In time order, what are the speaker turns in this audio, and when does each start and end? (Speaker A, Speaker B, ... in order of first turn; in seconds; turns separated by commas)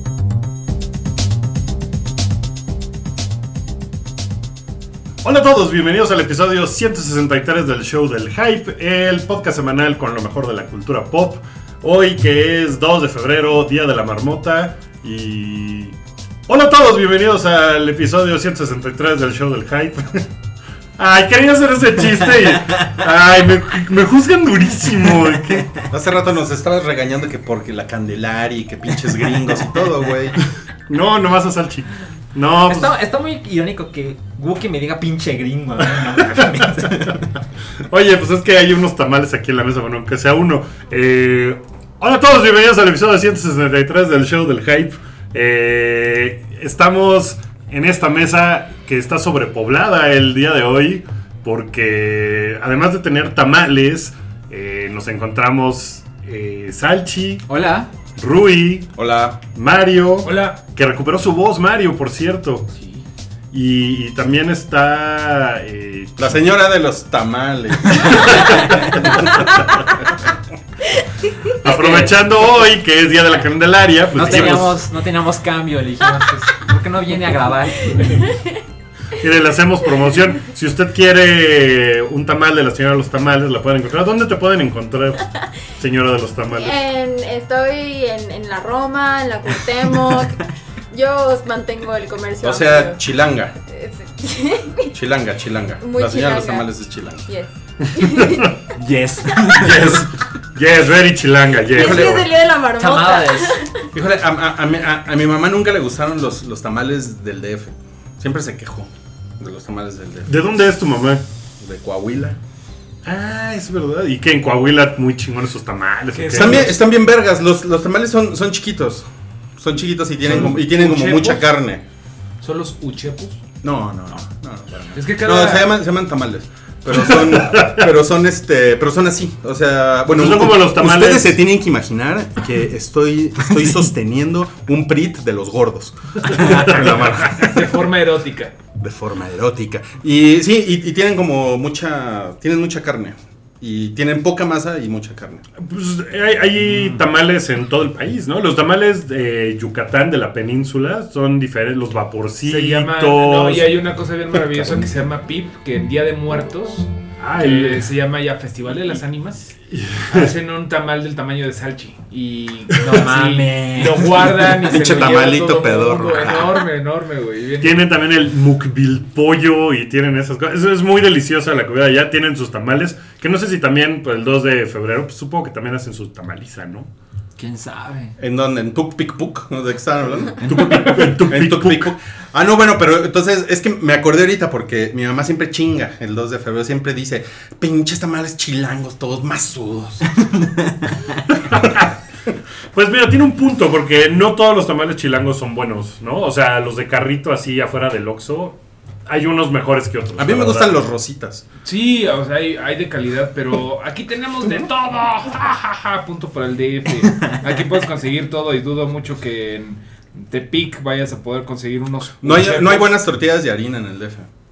Speaker A: 5.2-15.9, Speaker A: 16.5-20.3, Speaker A: 21.0-25.8, Speaker B: 25.9-30.4, Speaker A: 30.9-32.9, Speaker C: 32.6-37.2, Speaker A: 35.9-37.2, Speaker A: 37.9-57.5, Speaker C: 57.5-57.9, Speaker A: 58.1-58.9, Speaker B: 59.0-59.4, Speaker A: 59.5-62.7, Speaker D: 60.2-60.6, Speaker D: 62.8-63.0, Speaker A: 63.5-66.5, Speaker B: 66.2-68.5, Speaker A: 67.9-69.2, Speaker E: 70.9-71.5, Speaker A: 71.6-74.8, Speaker C: 71.6-72.3, Speaker C: 74.1-78.3, Speaker E: 77.8-78.6, Speaker A: 79.2-86.8, Speaker E: 86.5-93.0, Speaker B: 92.4-93.5, Speaker E: 93.6-94.9, Speaker B: 94.9-97.2, Speaker E: 95.8-96.7, Speaker E: 97.2-98.6, Speaker A: 97.9-98.5, Speaker C: 98.7-99.9, Speaker E: 99.3-99.6, Speaker A: 99.5-102.3, Speaker E: 101.7-103.9, Speaker B: 101.7-102.3, Speaker C: 102.7-103.6, Speaker B: 103.9-110.3, Speaker A: 110.2-111.2, Speaker B: 111.6-112.4, Speaker A: 113.0-116.8, Speaker D: 116.1-116.7, Speaker B: 116.3-121.8, Speaker D: 120.2-121.5, Speaker D: 122.4-123.4, Speaker B: 123.6-137.7, Speaker D: 124.9-125.8, Speaker A: 126.9-127.9, Speaker A: 130.1-131.4, Speaker A: 136.2-137.2, Speaker D: 136.3-138.5, Speaker B: 138.8-145.4, Speaker A: 145.6-153.8, Speaker D: 152.4-159.5, Speaker A: 157.2-157.8, Speaker A: 159.7-160.3, Speaker D: 160.1-167.9, Speaker C: 162.7-164.4, Speaker B: 164.6-166.6, Speaker A: 167.6-176.9, Speaker C: 177.4-178.2, Speaker B: 178.2-190.1, Speaker A: 180.4-181.9, Speaker A: 191.3-191.9, Speaker A: 192.7-200.8, Speaker B: 200.2-201.4, Speaker D: 201.6-212.9, Speaker B: 212.2-214.3